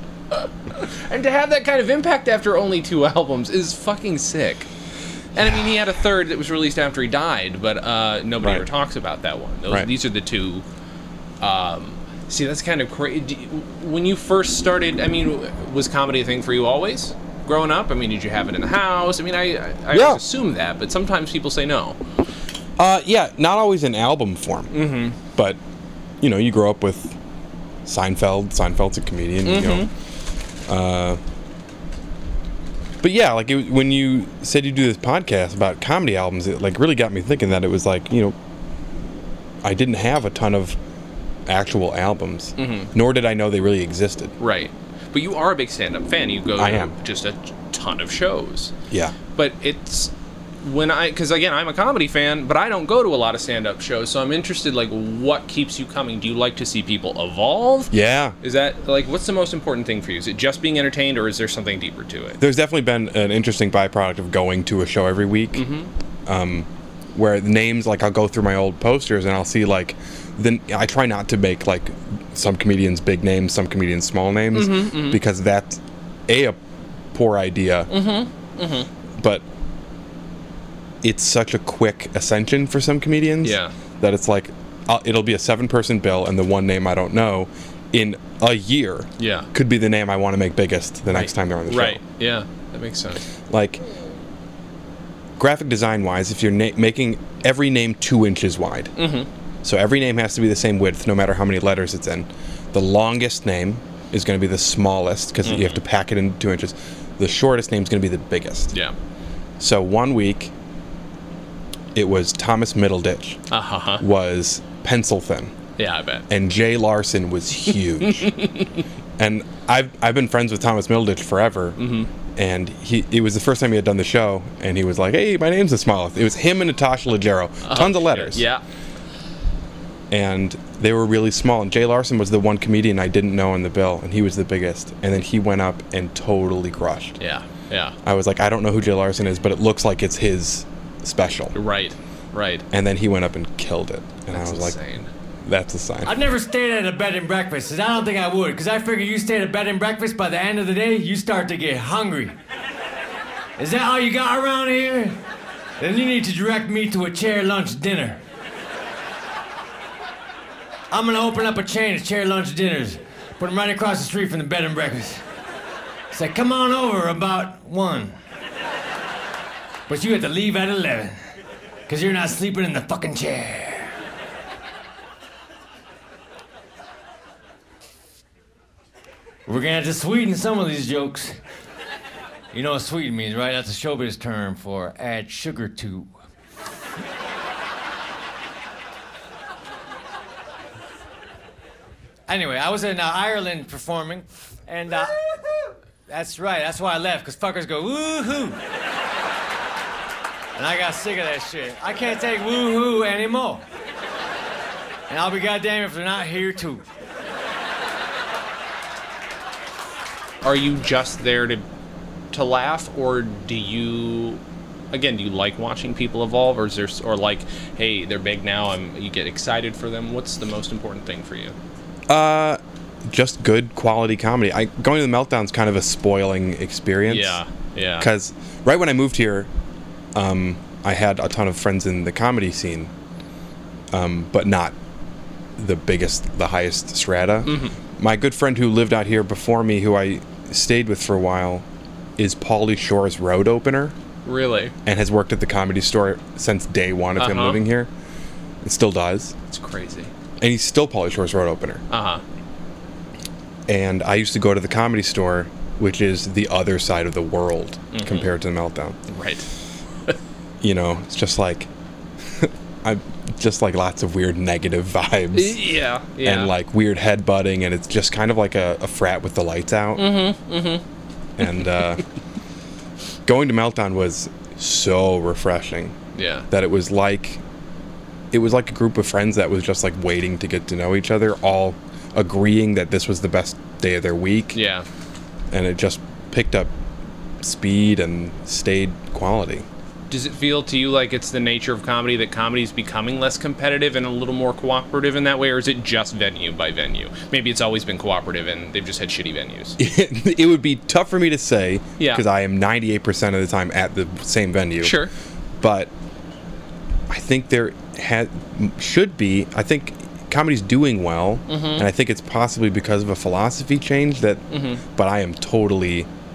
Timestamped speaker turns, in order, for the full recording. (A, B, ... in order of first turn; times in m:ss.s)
0:00.3-0:04.7 A
0:05.3-0:10.6 A
0:11.4-0:22.0 A
0:19.9-0:20.2 B
0:22.8-0:25.6 B
0:24.7-0:25.2 A
0:26.2-0:27.2 B
0:27.8-0:29.9 B
0:29.4-0:29.9 A
0:30.7-0:31.2 B
0:33.0-0:38.3 B
0:39.6-0:40.8 B
0:41.5-0:44.3 B
0:42.6-0:42.9 A
0:44.4-0:48.7 A
0:46.6-0:46.9 B
0:48.9-0:49.1 B
0:49.3-1:02.4 A
0:57.9-0:58.3 B
1:02.4-1:05.6 B
1:05.5-1:05.9 A
1:06.3-1:16.6 B
1:14.5-1:15.2 A
1:17.1-1:17.9 B
1:17.9-1:18.9 A
1:19.2-1:19.4 B
1:21.0-1:32.0 B
1:23.4-1:23.7 A
1:29.2-1:29.5 A
1:31.1-1:33.2 A
1:33.5-1:33.8 B
1:35.4-1:38.9 B
1:39.0-1:39.3 A
1:39.6-1:48.7 B
1:45.4-1:45.8 A
1:49.6-1:50.5 B
1:51.9-1:53.4 B
1:53.5-1:54.0 A
1:54.0-1:55.5 B
1:55.8-1:56.2 A
1:56.3-1:58.3 B
1:58.0-1:58.8 A
1:59.2-2:01.8 B
2:01.8-2:02.1 A
2:02.3-2:08.4 B
2:07.6-2:08.6 A
2:10.1-2:17.2 B
2:17.2-2:17.9 A
2:18.0-2:21.6 B
2:21.5-2:22.6 A
2:22.7-2:24.8 B
2:24.3-2:25.1 A
2:25.4-2:26.1 B
2:26.0-2:32.4 C
2:33.6-2:35.2 C
2:35.8-2:38.2 C
2:40.9-2:45.2 C
2:46.1-2:48.2 C
2:49.9-2:51.2 C
2:51.9-2:54.0 C
2:59.5-3:01.4 C
3:02.5-3:06.1 C
3:12.3-3:15.3 C
3:16.1-3:18.6 C
3:20.6-3:23.6 C
3:25.1-3:26.8 C
3:30.4-3:31.6 A
3:32.3-3:34.4 A
3:34.9-3:41.5 A
3:42.1-3:47.4 B
3:47.1-3:48.1 A
3:48.0-3:49.5 B
3:50.1-3:52.9 B
3:53.9-3:54.7 B
3:55.6-4:01.6 B
3:57.4-3:57.8 A
4:02.2-4:03.9 B
4:04.2-4:04.7 A
4:04.8-4:07.9 B
4:07.2-4:07.6 A
4:08.6-4:09.3 B
4:09.5-4:10.1 A
4:10.4-4:11.8 B
4:11.9-4:12.2 A
4:13.7-4:19.0 B
4:17.9-4:18.3 A
4:19.1-4:19.4 A
4:20.6-4:21.7 B
4:22.3-4:25.6 B
4:25.3-4:26.5 A
4:26.2-4:30.1 B
4:30.0-4:30.8 A
4:31.4-4:32.0 B
4:33.2-4:36.0 B
4:36.1-4:36.5 A
4:36.5-4:37.4 B
4:38.3-4:44.6 B
4:44.5-4:44.8 A
4:45.5-4:46.7 B
4:47.4-4:49.6 B
4:50.1-4:59.8 A
4:59.8-5:05.0 B
5:04.8-5:05.1 A
5:05.6-5:05.9 B
5:07.1-5:16.1 B
5:11.5-5:11.8 A
5:14.5-5:14.8 A